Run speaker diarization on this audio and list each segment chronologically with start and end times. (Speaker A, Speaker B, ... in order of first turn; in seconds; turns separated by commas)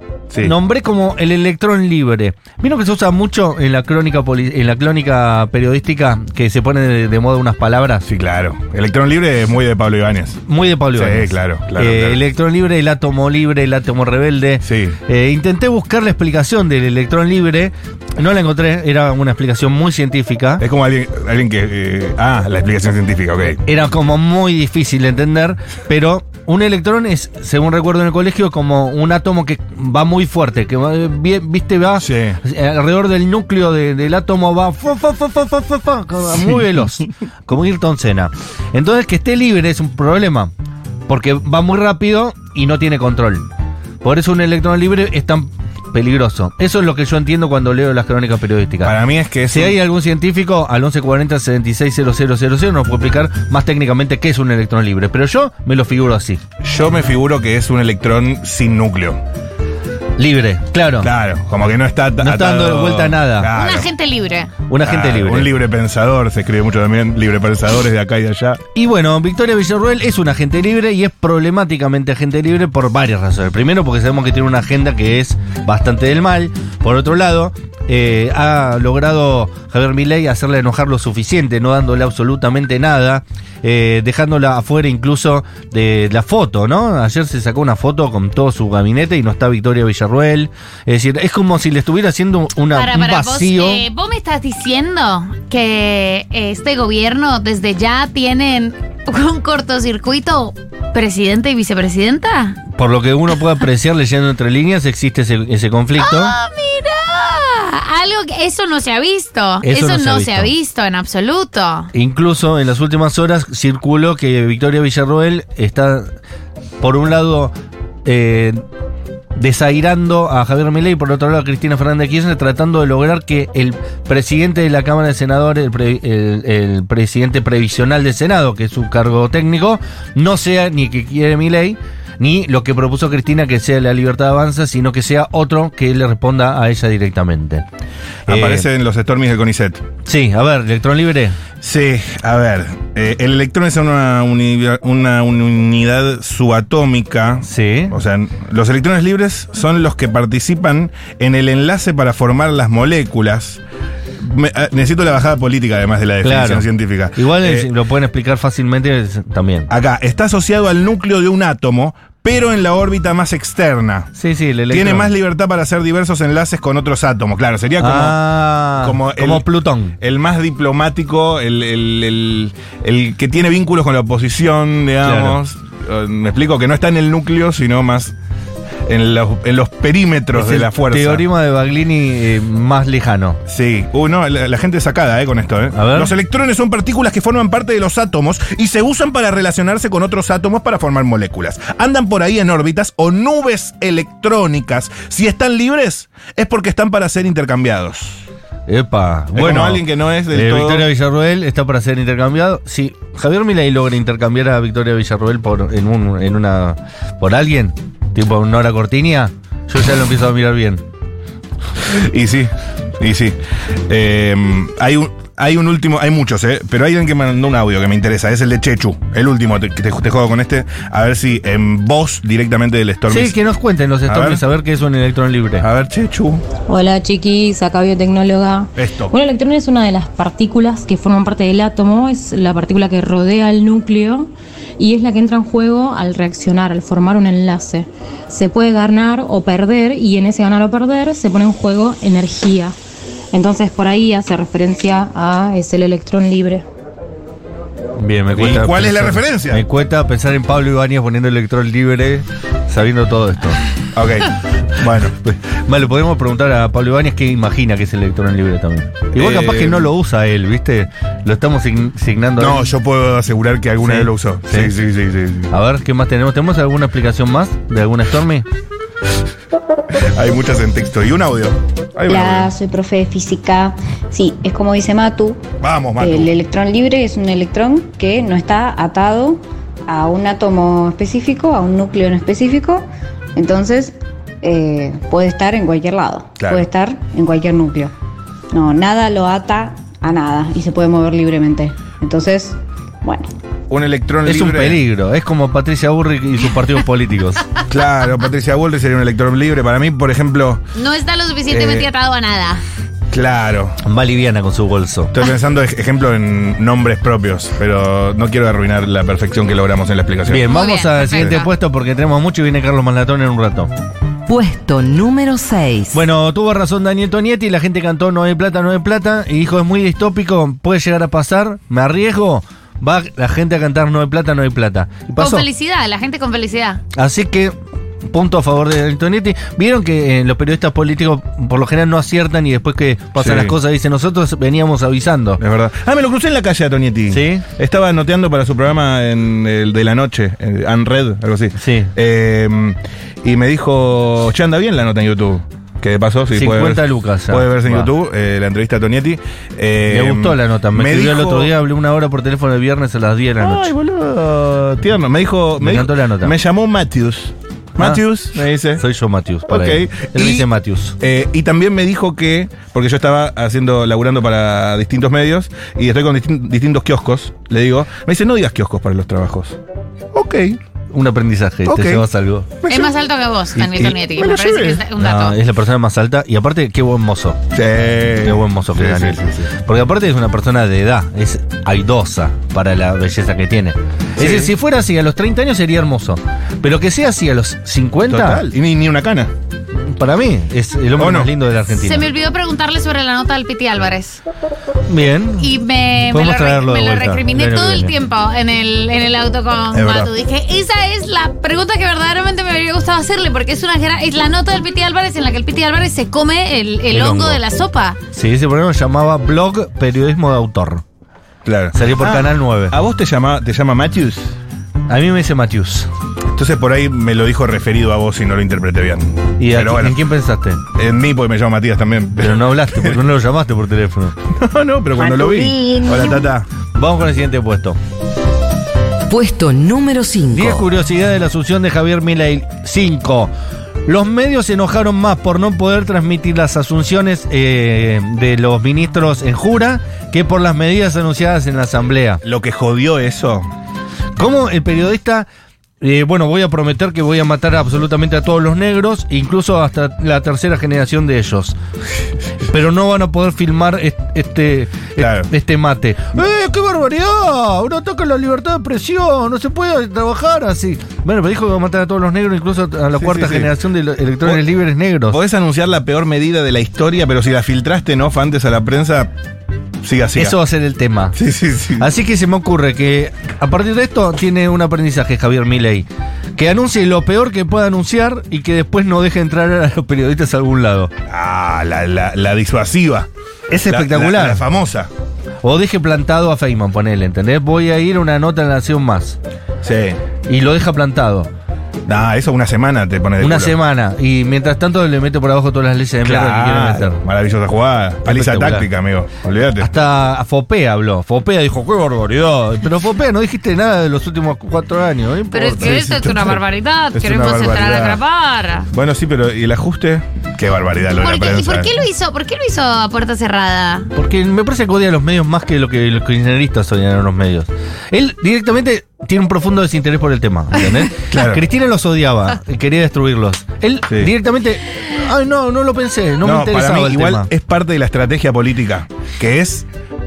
Speaker A: 0.3-0.5, Speaker B: 0.4-8.1, Speaker A: 8.0-10.4, Speaker B: 10.4-20.6, Speaker A: 10.9-12.2, Speaker A: 14.6-15.0, Speaker A: 20.6-23.6, Speaker B: 23.6-40.5, Speaker A: 32.0-32.4, Speaker B: 41.1-43.5, Speaker B: 44.0-49.0, Speaker A: 48.8-49.8, Speaker B: 49.5-56.4, Speaker A: 56.6-59.2, Speaker B: 60.2-61.1, Speaker A: 61.0-63.9, Speaker B: 62.2-63.5, Speaker C: 63.5-64.5, Speaker B: 64.7-65.5, Speaker A: 64.8-68.6, Speaker B: 68.7-93.8, Speaker C: 92.7-102.6, Speaker B: 102.7-106.3, Speaker C: 106.0-111.9, Speaker B: 109.6-110.5, Speaker B: 111.9-116.1, Speaker B: 116.8-117.5, Speaker B: 118.0-118.6, Speaker B: 119.3-137.6, Speaker B: 138.3-138.7, Speaker A: 138.3-139.8, Speaker B: 140.0-141.4, Speaker A: 141.6-153.6, Speaker B: 147.4-147.9, Speaker A: 154.2-157.7, Speaker B: 156.2-159.7, Speaker A: 159.7-164.1, Speaker B: 164.2-165.1, Speaker A: 164.7-178.1, Speaker B: 167.8-169.9, Speaker B: 175.0-175.4, Speaker A: 178.8-181.2, Speaker B: 180.3-183.4, Speaker A: 183.5-198.2, Speaker B: 185.7-186.1, Speaker B: 198.7-210.8, Speaker A: 199.3-200.9, Speaker A: 211.8-223.4, Speaker B: 223.1-225.7, Speaker A: 224.1-224.4, Speaker A: 225.6-226.4, Speaker D: 226.7-242.7, Speaker A: 228.8-229.1, Speaker D: 243.3-246.7, Speaker B: 248.0-253.6, Speaker A: 248.3-249.6, Speaker A: 253.9-255.1, Speaker B: 255.2-262.7, Speaker A: 259.1-259.9, Speaker A: 262.4-265.5, Speaker B: 263.8-264.7, Speaker B: 265.5-268.4, Speaker A: 269.9-272.5, Speaker E: 272.1-287.9, Speaker A: 275.6-276.3, Speaker A: 286.4-286.6, Speaker E: 288.5-293.3, Speaker A: 293.7-294.8, Speaker B: 294.2-297.4, Speaker A: 297.7-300.6, Speaker C: 300.7-302.6, Speaker A: 301.5-301.9, Speaker A: 303.1-303.8, Speaker B: 303.8-305.1, Speaker A: 305.1-310.5, Speaker B: 310.2-313.7, Speaker C: 310.4-311.5, Speaker A: 311.1-311.4, Speaker F: 314.3-316.0, Speaker B: 315.9-325.5, Speaker C: 325.2-326.8, Speaker B: 326.9-327.5, Speaker B: 328.1-335.4, Speaker A: 333.2-333.6, Speaker A: 335.4-351.5, Speaker B: 337.1-337.4, Speaker B: 341.6-341.9, Speaker B: 346.3-347.9, Speaker B: 349.9-353.7, Speaker A: 353.4-358.8, Speaker B: 355.6-356.3, Speaker B: 358.8-360.9, Speaker A: 359.5-360.5, Speaker A: 361.0-369.6, Speaker A: 370.1-370.6, Speaker B: 370.9-372.5, Speaker A: 371.6-372.1, Speaker A: 372.6-372.9, Speaker C: 372.7-375.4, Speaker A: 373.6-374.8, Speaker B: 375.0-377.4, Speaker A: 377.5-379.5, Speaker B: 378.2-388.5, Speaker A: 384.2-384.5, Speaker A: 388.1-389.3, Speaker B: 389.7-392.1, Speaker A: 390.9-391.3, Speaker C: 391.7-394.2, Speaker B: 394.9-395.5, Speaker C: 395.4-408.0, Speaker B: 396.0-397.9, Speaker A: 399.7-400.1, Speaker B: 406.9-407.4, Speaker B: 408.1-410.8, Speaker A: 411.4-414.3, Speaker B: 411.7-412.8, Speaker B: 414.9-415.9, Speaker A: 416.3-420.0, Speaker B: 419.4-420.6, Speaker A: 420.7-423.0, Speaker B: 422.2-424.2, Speaker A: 424.2-426.5, Speaker B: 426.7-427.8, Speaker F: 429.1-430.6, Speaker B: 430.3-433.3, Speaker B: 433.9-442.2, Speaker A: 442.2-443.5, Speaker B: 444.2-445.3, Speaker B: 445.8-451.6, Speaker B: 452.4-465.2, Speaker A: 455.0-455.3, Speaker A: 462.9-463.5, Speaker A: 465.1-469.1, Speaker A: 469.8-470.4, Speaker B: 470.1-471.2, Speaker A: 471.1-471.9, Speaker B: 471.8-480.9, Speaker A: 481.1-483.1, Speaker B: 483.5-484.4, Speaker A: 483.6-484.9, Speaker B: 485.4-489.2, Speaker A: 489.6-490.0, Speaker B: 490.3-491.3, Speaker A: 491.9-493.6, Speaker B: 493.2-497.0, Speaker A: 496.0-499.7, Speaker B: 498.0-498.7, Speaker B: 499.6-505.8, Speaker C: 505.3-508.7, Speaker A: 505.6-506.4, Speaker A: 506.9-508.0, Speaker A: 508.7-511.7, Speaker C: 511.0-513.9, Speaker B: 513.9-527.3, Speaker A: 521.1-521.4, Speaker A: 526.2-529.7